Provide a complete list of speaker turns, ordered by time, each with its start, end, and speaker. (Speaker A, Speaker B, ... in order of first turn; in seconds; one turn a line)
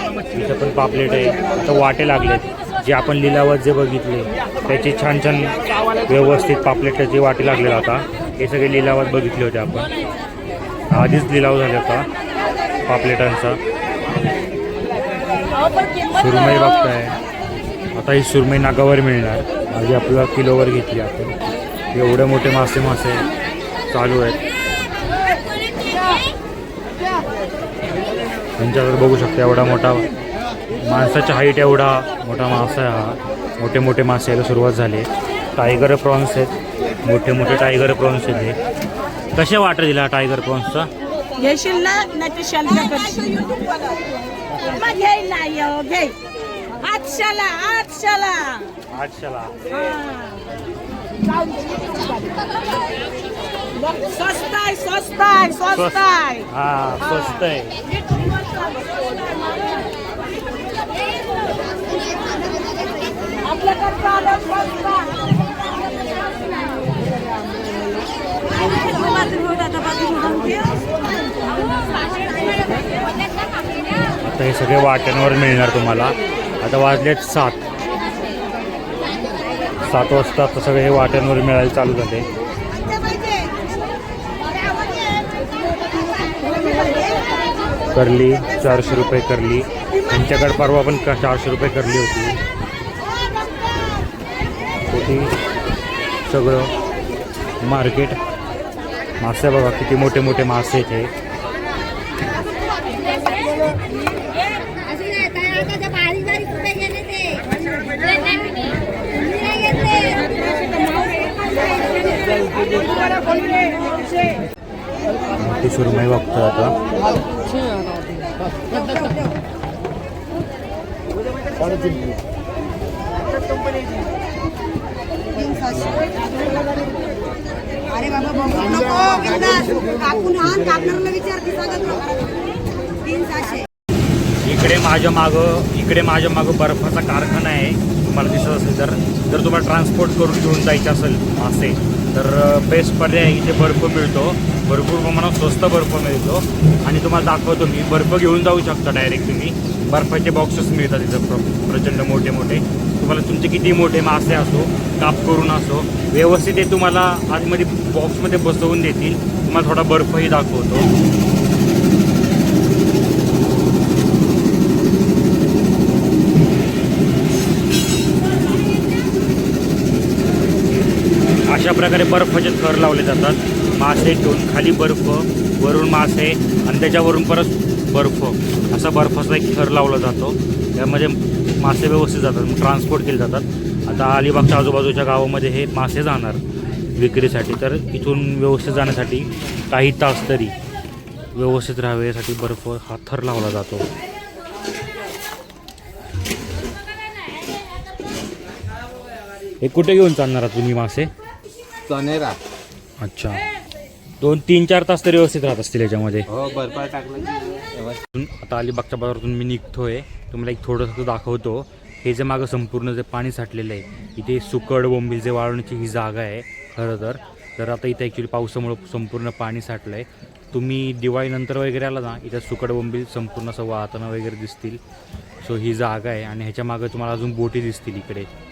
Speaker A: 0.3-9.9
Speaker A: 10.9-12.1
Speaker A: 12.9-13.6
Speaker A: 16.1-17.1
Speaker A: 17.9-21.4
Speaker A: 21.9-23.2
Speaker A: 23.9-24.4
Speaker A: 28.6-30.1
Speaker A: 30.8-38.6
Speaker A: 39.4-40.9
Speaker B: 41.4-43.6
Speaker B: 44.6-46.1
Speaker B: 46.8-48.7
Speaker A: 48.9-49.6
Speaker B: 49.8-50.2
Speaker B: 51.4-52.4
Speaker B: 53.8-56.5
Speaker A: 55.8-57.8
Speaker B: 58.8-59.1
Speaker B: 63.5-65.1
Speaker B: 72.3-72.8
Speaker A: 74.2-77.6
Speaker A: 79.8-82.3
Speaker C: 86.6-87.0
Speaker A: 87.9-92.4
Speaker A: 94.9-95.3
Speaker A: 96.3-96.7
Speaker A: 97.6-98.2
Speaker A: 99.2-101.1
Speaker C: 104.8-107.5
Speaker C: 109.3-110.8
Speaker C: 111.4-112.8
Speaker A: 115.4-116.8
Speaker C: 118.7-119.3
Speaker C: 125.3-126.3
Speaker C: 127.9-132.4
Speaker C: 133.0-133.7
Speaker A: 134.4-160.9
Speaker A: 171.4-186.4
Speaker A: 186.9-190.6
Speaker A: 191.3-193.9
Speaker A: 199.6-201.1
Speaker D: 201.9-202.4
Speaker A: 203.0-203.4
Speaker A: 204.2-206.3
Speaker D: 206.3-208.0
Speaker A: 208.0-224.8
Speaker A: 225.4-228.3